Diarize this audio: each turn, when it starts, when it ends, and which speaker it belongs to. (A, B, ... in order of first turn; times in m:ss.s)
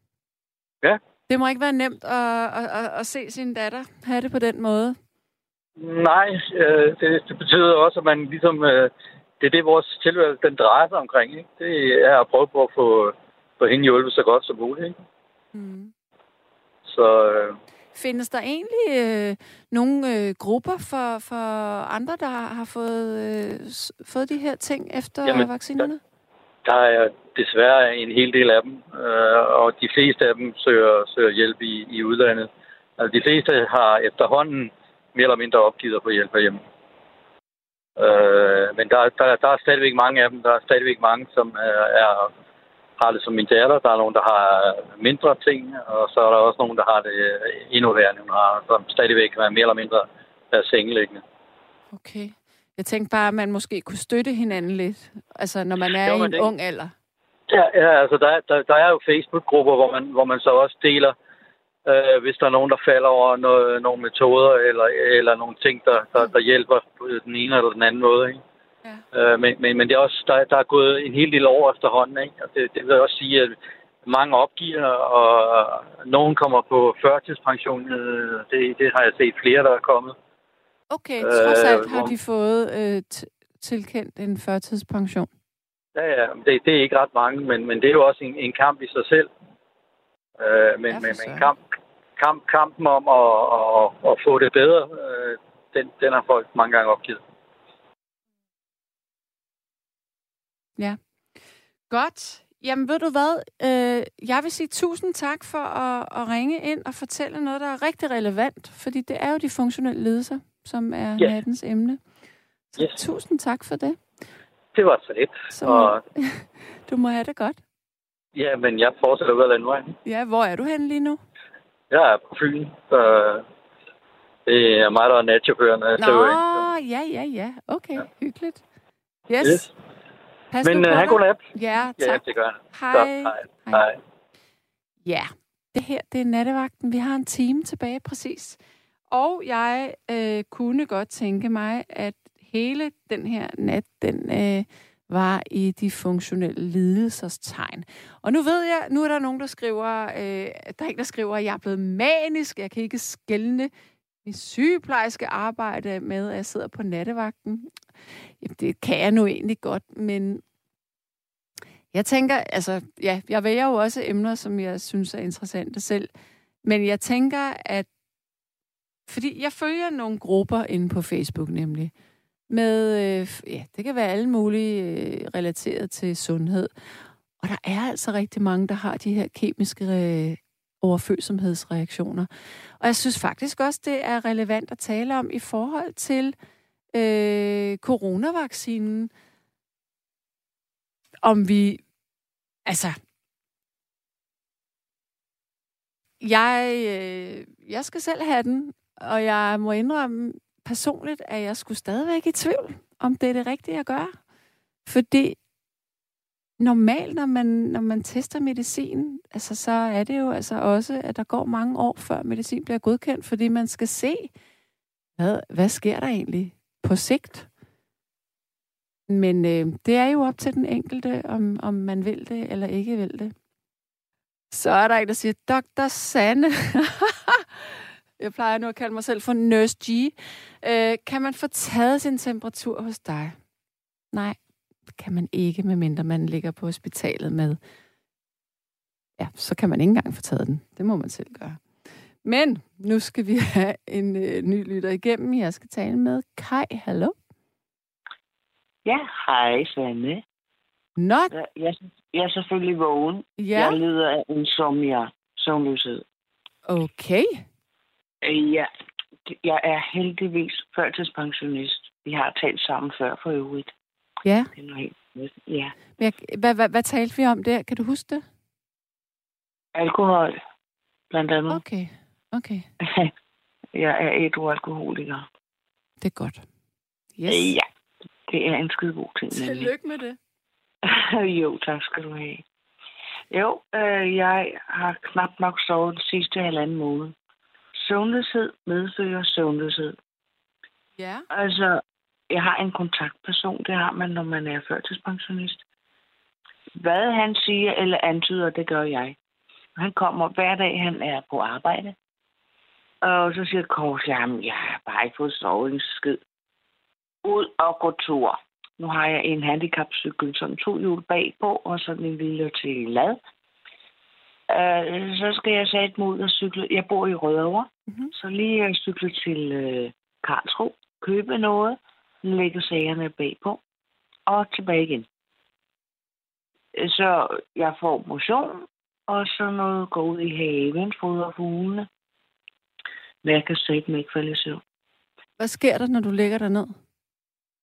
0:01.3-0:05.0 A
0:05.8-0:14.9 B
0:15.5-0:15.9 A
0:16.8-0:17.6 B
0:17.9-0:26.0 A
0:26.6-0:36.6 B
0:38.0-0:42.3 B
0:43.0-0:51.2 B
0:51.9-0:56.9 A
0:56.0-0:56.5 B
0:57.5-1:01.1 B
1:01.8-1:08.4 B
1:09.1-1:13.5 B
1:14.0-1:20.1 B
1:20.9-1:25.3 A
1:21.2-1:22.1 B
1:25.9-1:29.3 B
1:30.4-1:31.6 B
1:30.9-1:31.5 A
1:32.2-1:37.2 B
1:41.9-1:52.0 A
1:52.7-1:54.0 A
1:54.7-1:56.0 B
1:55.5-1:57.6 A
1:58.3-1:59.9 B
2:00.0-2:01.2 A
2:01.9-2:03.4 B
2:04.4-2:06.4 B
2:06.0-2:08.6 A
2:09.3-2:09.7 A
2:09.4-2:09.7 B
2:10.5-2:13.8 A
2:10.6-2:11.4 B
2:12.0-2:13.9 B
2:15.0-2:18.6 A
2:19.1-2:33.7 A
2:34.2-2:37.7 A
2:38.4-2:40.4 A
2:41.9-2:46.1 A
2:46.6-2:47.9 A
2:49.1-2:51.9 A
2:52.5-3:02.3 A
3:02.8-3:06.3 A
3:06.9-3:09.1 A
3:11.2-3:11.8 A
3:12.6-3:13.0 A
3:16.2-3:24.1 A
3:24.9-3:25.4 A
3:26.6-3:34.3 A
3:35.2-3:37.5 A
3:39.1-3:43.3 A
3:44.5-3:53.4 A
3:54.1-3:54.4 A
3:54.9-3:57.6 A
3:59.2-4:01.6 A
4:02.2-4:07.1 A
4:08.8-4:10.2 C
4:11.0-4:11.3 A
4:11.3-4:16.0 C
4:13.4-4:13.8 A
4:16.7-4:17.4 A
4:18.2-4:18.7 C
4:19.3-4:23.7 C
4:24.2-4:24.5 A
4:24.5-4:25.7 C
4:26.0-4:28.2 A
4:29.7-4:30.4 C
4:31.1-4:31.6 C
4:31.5-4:32.7 A
4:32.8-4:33.1 C
4:33.7-4:35.2 C
4:36.0-4:36.4 A
4:37.2-4:37.6 A
4:37.3-4:37.6 C
4:38.3-4:39.7 C
4:39.3-4:40.2 A
4:40.8-4:42.4 C
4:43.3-4:47.1 C
4:47.7-4:50.0 C
4:51.0-4:51.2 A
4:51.3-4:55.6 C
4:56.8-4:59.2 C
4:59.8-5:02.0 C
5:03.0-5:06.2 C
5:07.2-5:13.2 C
5:14.5-5:23.6 C
5:24.3-5:25.1 C
5:26.7-5:31.9 C
5:33.2-5:34.6 C
5:35.4-5:36.7 A